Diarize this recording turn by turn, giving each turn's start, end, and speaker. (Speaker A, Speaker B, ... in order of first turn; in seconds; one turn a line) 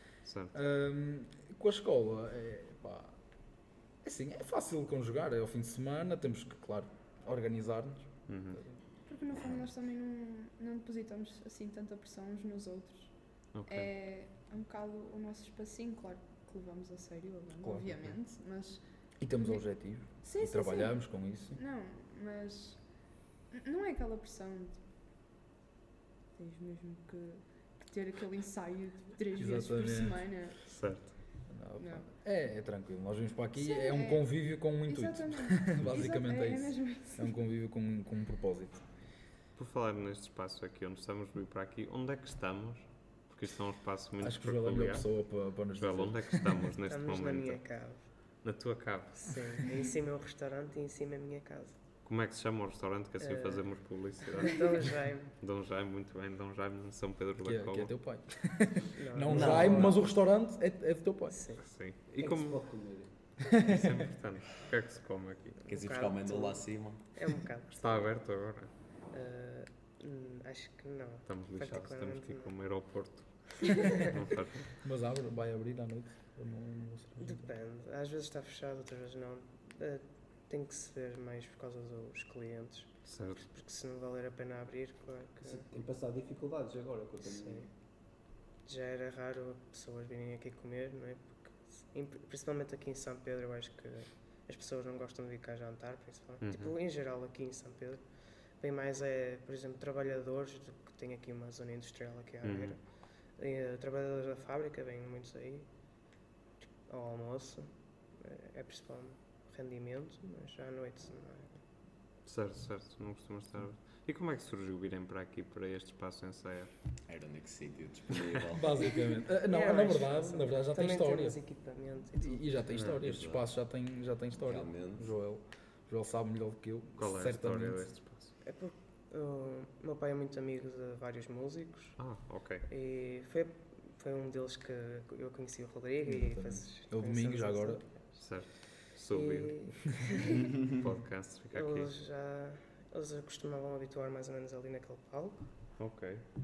Speaker A: 0.2-0.5
Speaker B: 0.5-8.6
Speaker A: 8.3-8.6
Speaker C: 9.0-24.8
Speaker A: 13.5-13.9
Speaker B: 17.6-18.1
Speaker B: 19.2-21.6
Speaker C: 26.3-32.1
Speaker B: 29.3-30.6
Speaker A: 30.6-31.1
Speaker B: 31.5-39.0
Speaker C: 33.5-37.3
Speaker A: 39.5-49.3
Speaker B: 44.2-46.5
Speaker D: 46.8-48.4
Speaker D: 49.2-51.8
Speaker A: 52.0-57.9
Speaker D: 53.2-55.3
Speaker B: 57.4-61.5
Speaker D: 59.0-60.2
Speaker E: 59.3-60.0
Speaker D: 61.3-61.8
Speaker A: 61.6-65.5
Speaker F: 62.1-63.3
Speaker B: 63.7-63.9
Speaker D: 65.5-73.1
Speaker E: 65.7-67.4
Speaker A: 67.7-68.7
Speaker A: 71.2-74.7
Speaker B: 74.8-77.5
Speaker D: 77.2-85.7
Speaker A: 83.0-83.4
Speaker F: 85.4-87.7
Speaker D: 87.2-87.7
Speaker D: 88.6-111.6
Speaker A: 96.4-96.7
Speaker A: 102.4-102.8
Speaker A: 112.2-116.7
Speaker E: 117.1-119.0
Speaker B: 118.5-128.0
Speaker D: 119.4-122.9
Speaker E: 122.9-123.7
Speaker E: 124.3-125.1
Speaker A: 127.0-128.3
Speaker D: 128.4-140.5
Speaker A: 132.0-132.6
Speaker B: 136.0-137.9
Speaker A: 138.1-140.1
Speaker A: 140.7-141.9
Speaker D: 141.5-145.8
Speaker A: 145.8-146.2